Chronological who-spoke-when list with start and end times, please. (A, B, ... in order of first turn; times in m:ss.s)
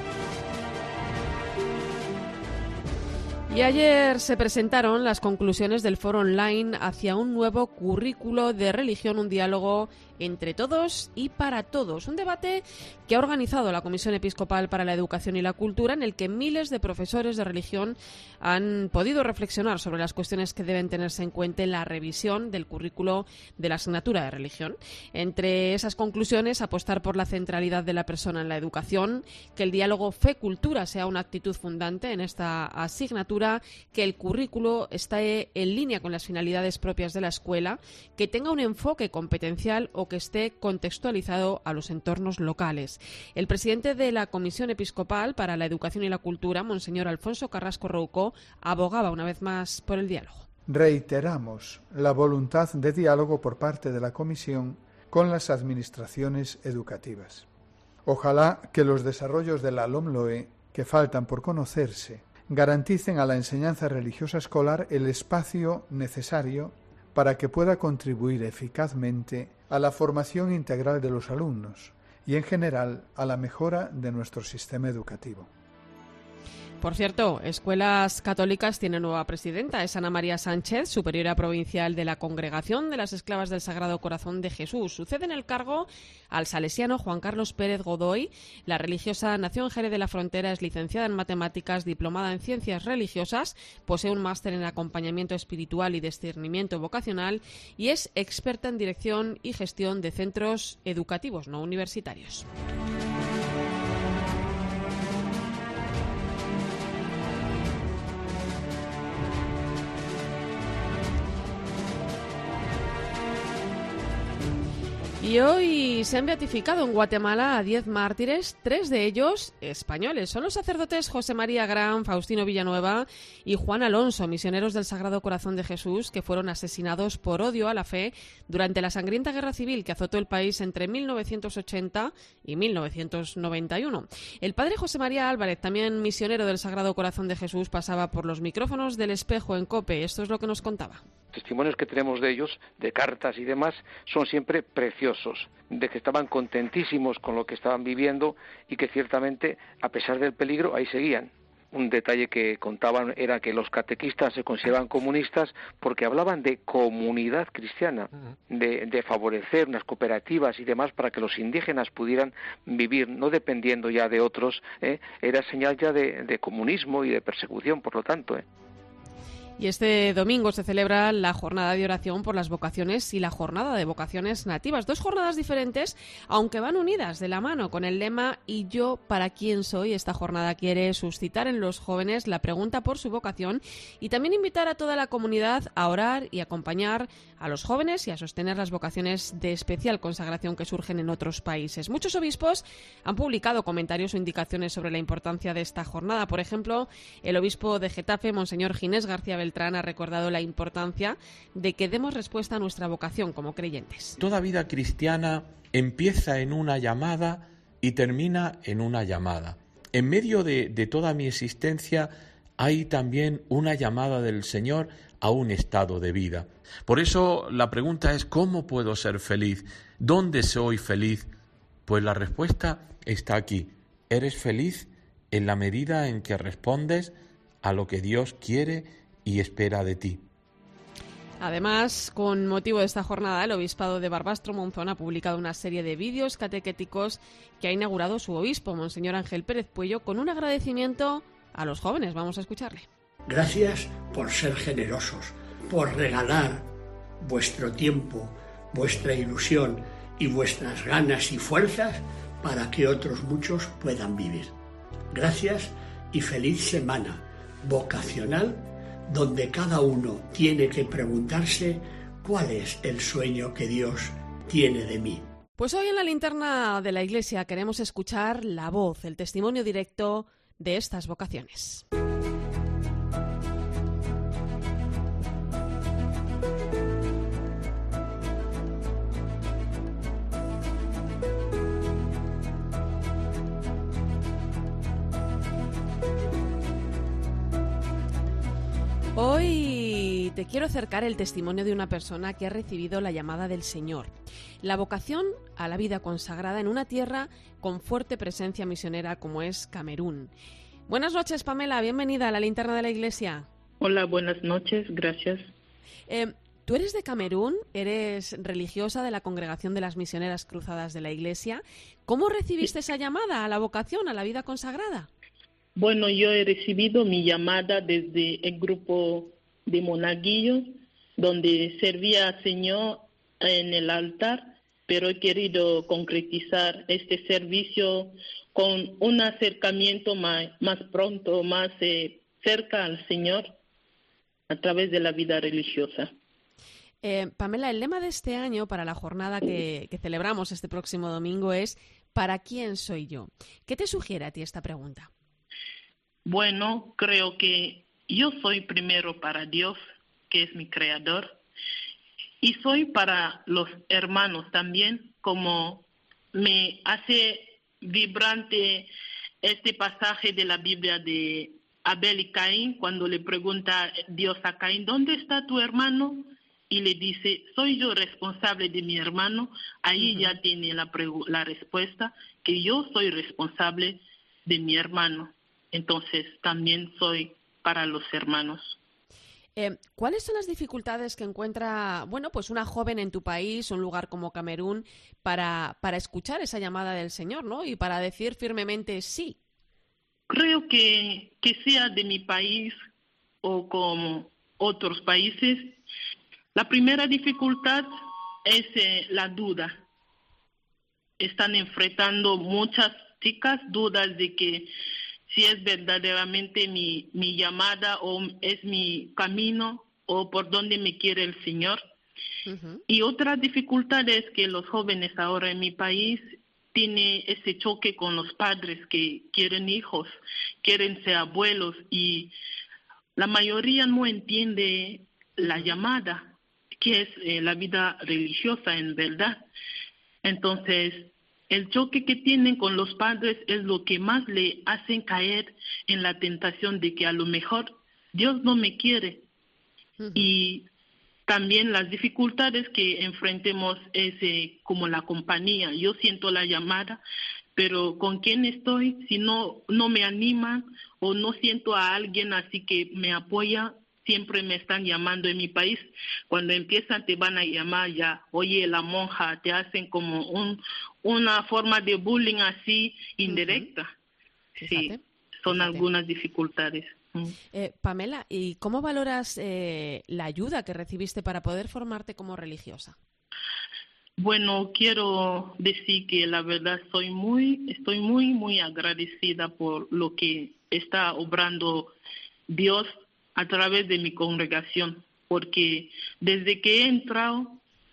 0:03.5-0:50.5 A
0:50.7-0:57.5 B
0:58.0-1:15.5 B
1:16.8-1:42.5 A
1:55.2-2:21.0 A
2:21.3-2:48.4 C
2:49.6-3:24.2 A
3:24.2-3:41.3 D
3:41.9-3:50.2 D
3:51.4-4:02.9 A
4:03.3-4:14.5 E
4:15.1-4:25.3 E
4:25.6-4:31.8 A
4:49.2-5:00.3 A
5:00.9-5:03.5 A
5:03.8-5:05.5 F
5:06.1-5:15.1 A
5:15.8-5:33.5 F
5:34.5-5:36.1 F
5:37.0-5:45.1 A
5:46.2-5:49.8 F
5:50.3-5:51.4 F
5:52.4-5:58.9 F
5:59.4-6:18.8 F
6:10.0-6:10.3 A
6:19.6-6:29.4 A
6:30.3-6:32.8 F
6:33.4-6:35.8 F
6:36.6-6:37.9 F
6:38.5-6:39.8 F
6:41.2-6:44.7 F
6:45.3-6:51.8 F
6:52.5-6:52.8 A
6:52.9-7:02.3 F
7:03.2-7:09.4 F
7:10.2-7:19.2 F
7:20.0-7:20.3 A
7:20.2-7:20.7 F
7:21.3-7:27.0 F
7:27.6-7:43.9 F
7:43.3-7:43.7 A
7:44.6-7:45.0 A
7:44.6-7:47.4 F
7:45.5-7:45.8 A
7:47.5-7:53.0 A
7:54.2-8:01.9 F
8:02.5-8:07.6 F